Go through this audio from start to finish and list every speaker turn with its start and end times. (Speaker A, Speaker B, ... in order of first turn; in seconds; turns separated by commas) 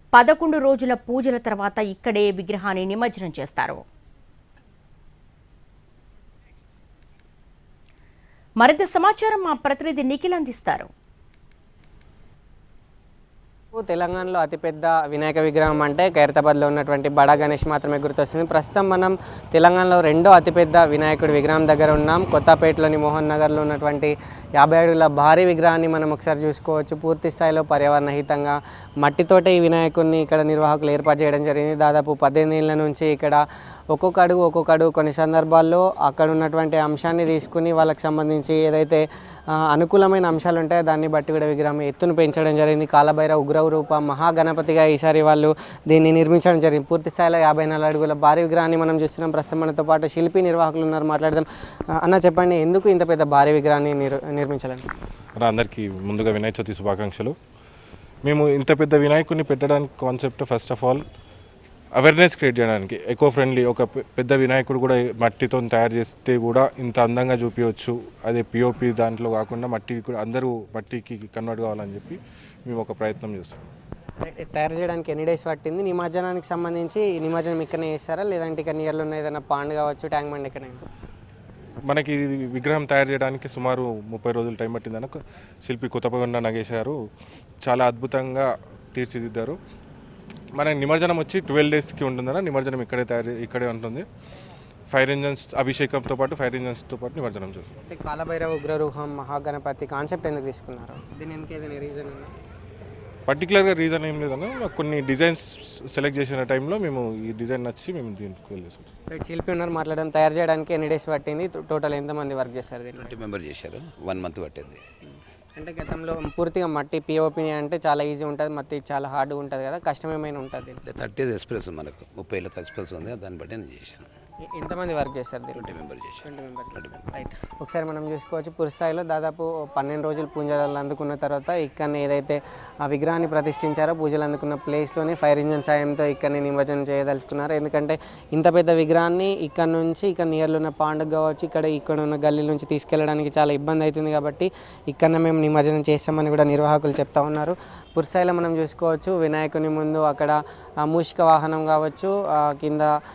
Speaker A: 0.1-3.8, Speaker A: 8.6-10.9, Speaker B: 13.7-54.9, Speaker C: 55.4-57.4, Speaker C: 58.3-61.0, Speaker C: 62.0-73.6, Speaker B: 74.2-80.8, Speaker C: 81.9-87.0, Speaker C: 87.6-89.6, Speaker C: 90.6-94.1, Speaker C: 94.9-97.7, Speaker B: 97.9-102.3, Speaker C: 103.3-108.9, Speaker B: 109.1-113.2, Speaker D: 113.0-114.8, Speaker B: 115.0-120.8, Speaker D: 120.9-124.1, Speaker B: 124.4-152.9, Speaker D: 125.5-127.1